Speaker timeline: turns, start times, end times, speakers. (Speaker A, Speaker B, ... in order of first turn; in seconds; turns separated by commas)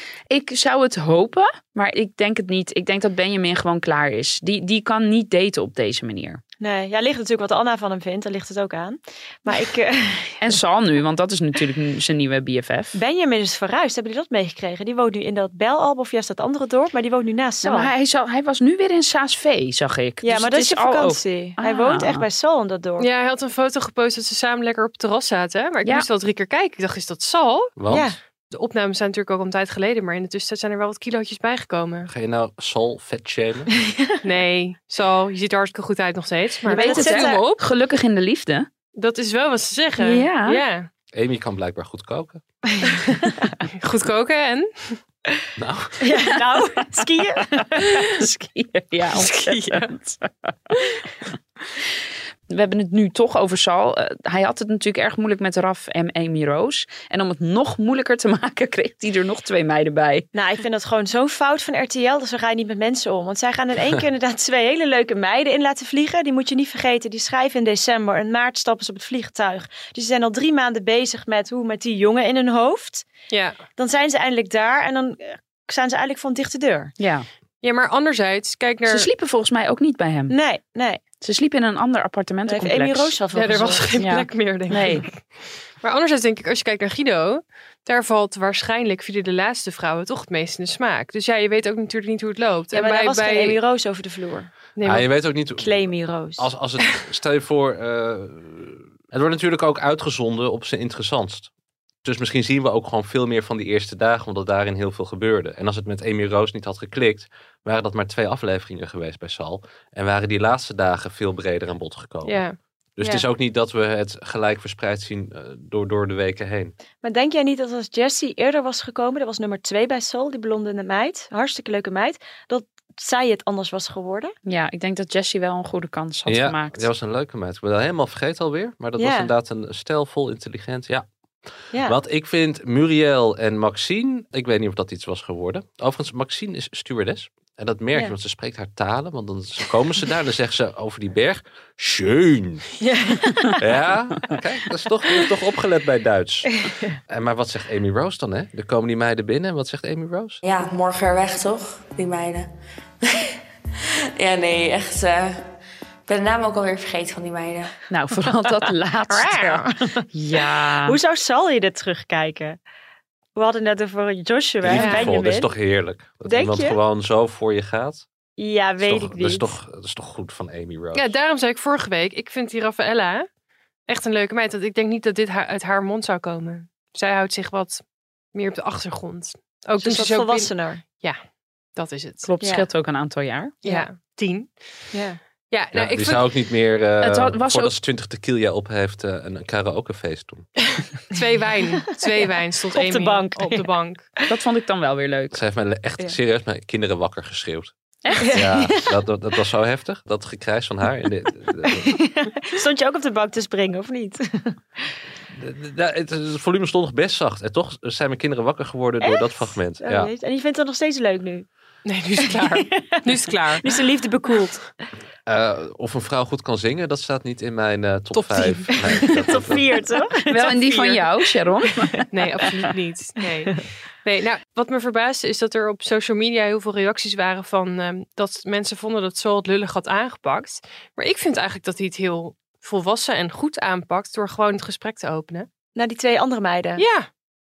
Speaker A: 0.3-6.4, Speaker B: 6.6-10.5, Speaker A: 10.4-13.0, Speaker B: 12.9-17.9, Speaker A: 17.6-22.2, Speaker B: 20.2-23.1, Speaker C: 23.0-27.7, Speaker D: 27.8-28.1, Speaker B: 27.9-28.2, Speaker C: 28.5-32.1, Speaker D: 32.1-33.7, Speaker B: 33.8-34.2, Speaker C: 34.2-37.6, Speaker B: 36.7-37.4, Speaker A: 36.7-38.7, Speaker C: 39.0-40.9, Speaker A: 40.0-40.6, Speaker D: 41.1-42.4, Speaker B: 42.8-43.5, Speaker C: 43.8-45.0, Speaker D: 45.6-46.0, Speaker B: 46.0-47.9, Speaker A: 47.8-50.7, Speaker C: 49.2-49.9, Speaker A: 52.5-60.3, Speaker B: 60.3-73.1, Speaker C: 73.3-73.6, Speaker B: 73.8-76.9, Speaker A: 77.0-77.2, Speaker C: 77.6-79.1, Speaker A: 78.8-80.3, Speaker B: 80.3-81.0, Speaker A: 81.2-83.1, Speaker B: 82.5-84.0, Speaker C: 83.3-93.6, Speaker A: 84.0-85.1, Speaker B: 92.7-94.5, Speaker C: 94.8-95.1, Speaker D: 94.8-101.5, Speaker B: 95.6-96.5, Speaker D: 102.0-112.4, Speaker C: 112.2-112.6, Speaker D: 113.0-116.7, Speaker B: 117.0-124.3, Speaker A: 124.5-126.9, Speaker D: 126.3-131.0, Speaker B: 129.0-129.3, Speaker D: 131.8-142.7, Speaker B: 142.8-143.6, Speaker D: 143.6-150.4, Speaker B: 146.6-146.9, Speaker E: 150.4-152.5, Speaker E: 154.2-155.4, Speaker E: 156.1-157.7, Speaker A: 157.9-161.0, Speaker B: 159.8-160.0, Speaker B: 160.8-162.6, Speaker B: 163.3-165.5, Speaker D: 164.6-168.1, Speaker C: 164.7-165.1, Speaker B: 166.2-166.8, Speaker B: 168.4-169.5, Speaker D: 168.8-171.1, Speaker C: 170.9-173.2, Speaker C: 173.9-181.2, Speaker B: 179.8-180.8, Speaker C: 181.7-182.3, Speaker A: 182.2-183.8, Speaker B: 182.4-182.7, Speaker C: 183.6-186.3, Speaker D: 185.7-190.5, Speaker A: 187.0-187.7, Speaker C: 190.7-194.1, Speaker B: 191.9-193.7, Speaker A: 194.3-195.4, Speaker D: 195.3-197.7, Speaker A: 198.0-198.3, Speaker B: 198.2-198.8, Speaker D: 198.3-201.9, Speaker B: 201.6-204.6, Speaker D: 205.3-210.1, Speaker B: 209.0-211.5, Speaker C: 211.8-213.7, Speaker B: 212.2-213.0, Speaker B: 213.6-214.7, Speaker D: 215.2-219.6, Speaker C: 218.1-219.2, Speaker B: 219.3-220.6, Speaker A: 220.3-221.9, Speaker C: 220.7-221.0, Speaker C: 222.1-235.5, Speaker B: 235.7-236.8, Speaker C: 236.8-237.1